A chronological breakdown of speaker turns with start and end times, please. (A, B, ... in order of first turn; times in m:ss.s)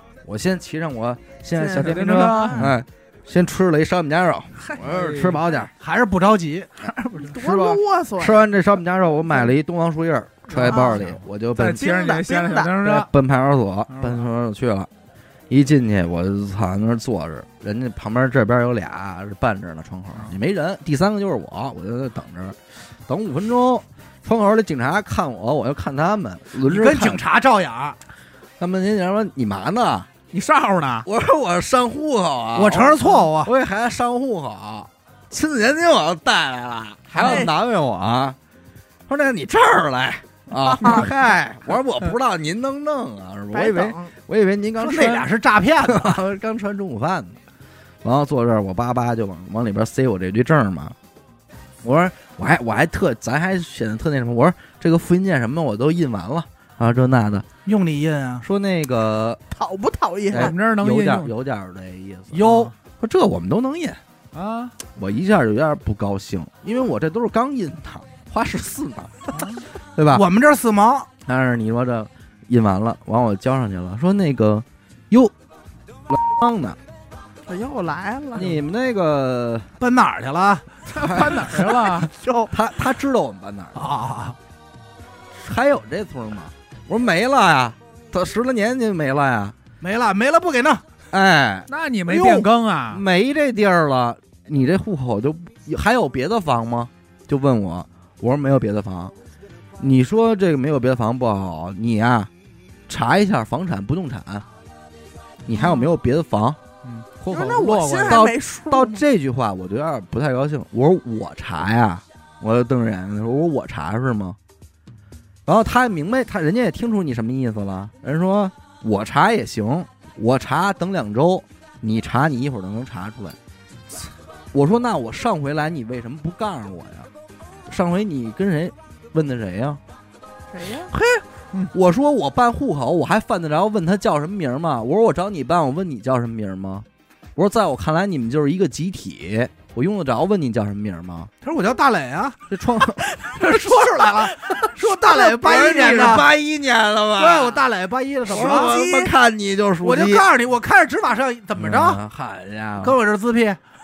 0:00.2-0:05.7 A
0:01.6-0:02.7 B
0:01.7-0:02.8 C
0:04.8-0:05.4 C
0:05.8-0:06.7 D
0:06.8-0:07.3 C
0:07.2-0:08.5 B
0:07.3-0:11.9 A
0:10.5-0:13.1 C
0:10.6-0:11.0 B
0:11.8-0:12.7 B
0:12.8-0:14.9 A
0:13.9-0:14.3 C
0:15.5-0:27.2 A
0:26.6-0:28.0 D
0:28.6-0:30.1 A
0:30.3-0:31.1 C
0:31.0-0:38.4 A
0:32.6-0:33.5 D
0:37.2-0:37.5 B
0:39.1-0:45.3 A
0:40.7-0:41.0 B
0:43.5-0:44.1 B
0:44.8-0:46.2 D
0:45.8-0:47.4 A
0:48.0-0:51.0 A
0:51.8-0:57.5 A
0:57.6-0:58.5 D
0:58.4-0:59.4 A
0:59.5-1:00.6 B
1:00.3-1:04.0 A
1:00.3-1:01.3 C
1:02.3-1:02.7 D
1:02.4-1:02.7 C
1:04.3-1:04.8 C
1:05.0-1:10.2 A
1:10.1-1:11.1 D
1:11.2-1:15.3 A
1:16.1-1:16.8 A
1:17.5-1:18.6 B
1:18.3-1:19.7 A
1:19.8-1:22.1 D
1:20.9-1:22.1 C
1:21.0-1:21.6 A
1:22.5-1:23.9 A
1:23.8-1:24.4 D
1:25.3-1:29.6 A
1:29.8-1:30.8 D
1:31.1-1:31.7 A
1:31.7-1:33.0 C
1:32.1-1:32.5 D
1:32.9-1:39.1 A
1:39.8-1:42.3 A
1:42.9-1:44.5 A
1:45.4-1:46.6 A
1:45.5-1:45.9 B
1:46.8-1:48.2 C
1:47.3-1:54.4 A
1:47.3-1:49.0 B
1:55.5-2:03.4 A
2:04.5-2:07.1 A
2:07.7-2:09.8 A
2:10.5-2:10.9 B
2:10.9-2:21.3 A
2:21.4-2:22.4 D
2:22.5-2:23.6 A
2:23.0-2:24.7 B
2:23.4-2:26.3 D
2:24.8-2:27.6 A
2:25.6-2:25.9 B
2:27.2-2:28.8 D
2:28.2-2:30.3 A
2:28.3-2:29.1 B
2:29.8-2:32.0 D
2:31.6-2:33.0 A
2:32.8-2:33.6 D